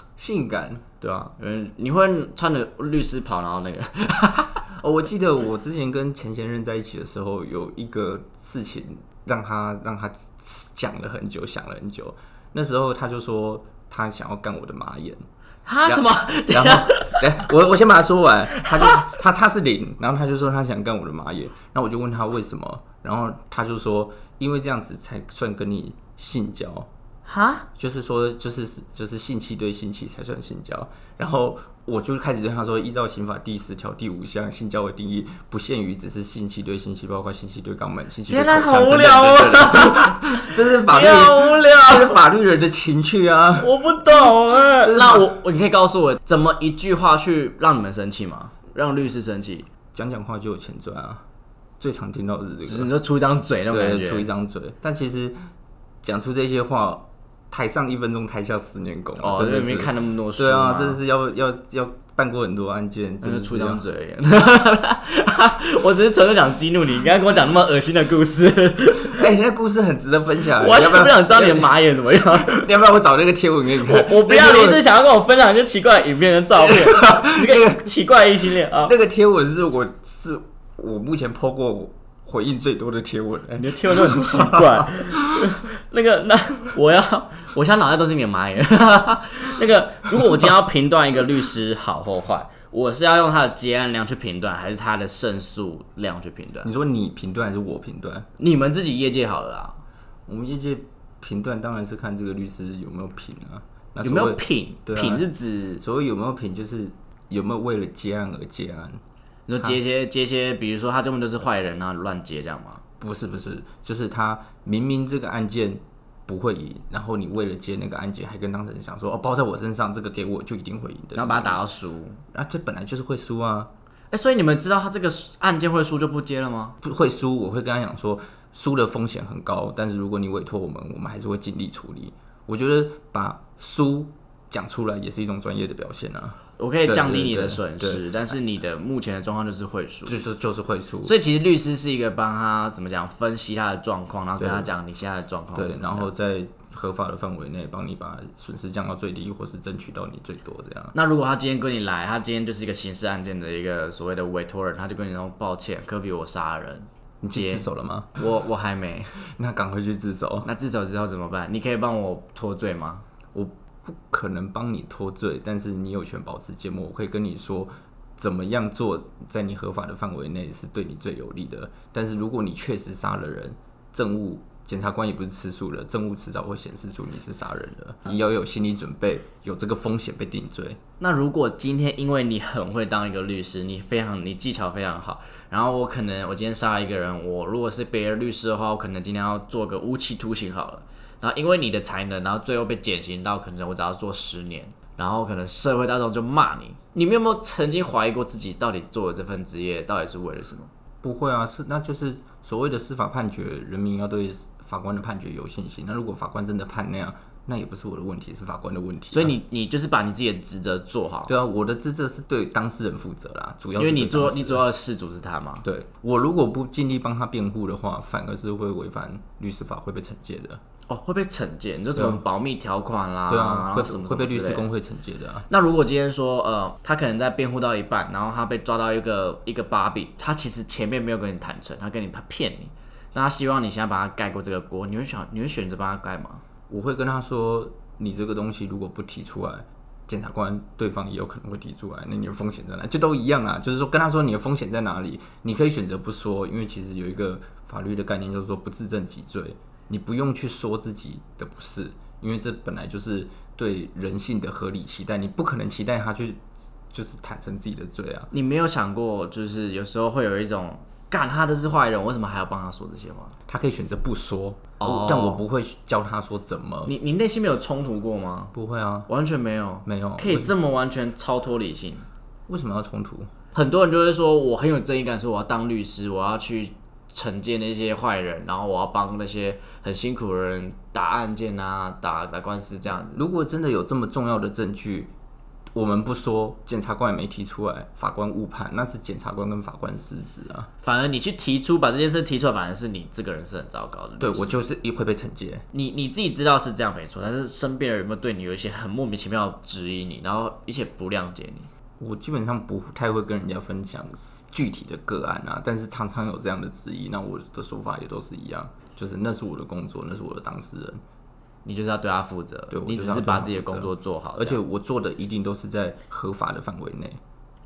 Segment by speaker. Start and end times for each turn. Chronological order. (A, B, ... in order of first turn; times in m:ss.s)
0:00.2-0:00.8 A
0:01.0-0:04.5 B
0:04.7-0:15.2 A
0:15.7-0:17.3 B
0:15.8-0:26.9 A
0:18.5-0:19.1 B
0:27.3-0:27.7 B
0:27.8-0:43.8 A
0:38.3-0:42.2 B
0:43.6-0:49.7 B
0:44.8-0:45.3 A
0:49.9-0:51.2 A
0:51.8-0:52.9 A
0:52.7-0:54.3 B
0:53.7-0:55.4 A
0:56.0-1:03.8 A
0:59.2-1:01.0 B
1:03.2-1:09.3 B
1:09.0-1:11.7 A
1:10.6-1:12.7 B
1:12.4-1:14.8 A
1:13.8-1:19.0 B
1:16.6-1:17.9 A
1:18.8-1:24.9 A
1:23.6-1:36.7 B
1:36.6-1:38.3 A
1:38.4-1:39.8 B
1:40.3-1:45.3 A
1:44.0-1:45.8 B
1:45.8-1:49.0 A
1:49.5-1:52.8 B
1:53.0-2:01.7 A
2:01.2-2:02.2 B
2:02.3-2:03.7 A
2:04.1-2:06.8 B
2:06.8-2:18.4 A
2:16.6-2:20.2 B
2:20.1-2:21.2 A
2:21.0-2:26.1 B
2:24.4-2:24.7 A
2:25.5-2:31.0 A
2:30.9-2:39.1 B
2:37.2-2:38.2 A
2:39.2-2:40.5 A
2:40.4-2:43.0 B
2:43.3-3:00.8 A
3:01.0-3:20.7 B
3:21.0-3:29.4 A
3:29.1-3:31.4 B
3:31.3-3:34.6 A
3:33.8-3:35.6 B
3:35.6-3:40.6 A
3:40.9-3:44.7 B
3:42.0-3:42.2 A
3:43.3-3:45.5 A
3:45.5-3:56.4 B
3:56.7-4:18.3 A
4:18.3-4:23.3 B
4:23.5-4:26.9 A
4:24.8-4:25.4 B
4:26.9-4:28.5 B
4:28.5-4:29.1 A
4:29.1-4:32.1 B
4:29.8-4:30.6 A
4:32.5-4:33.3 A
4:33.5-4:43.2 B
4:43.1-4:45.1 A
4:45.7-4:50.7 A
4:50.8-4:54.6 B
4:54.2-4:55.7 A
4:55.7-5:01.7 B
5:02.0-5:11.0 A
5:11.6-5:14.6 B
5:12.7-5:17.2 A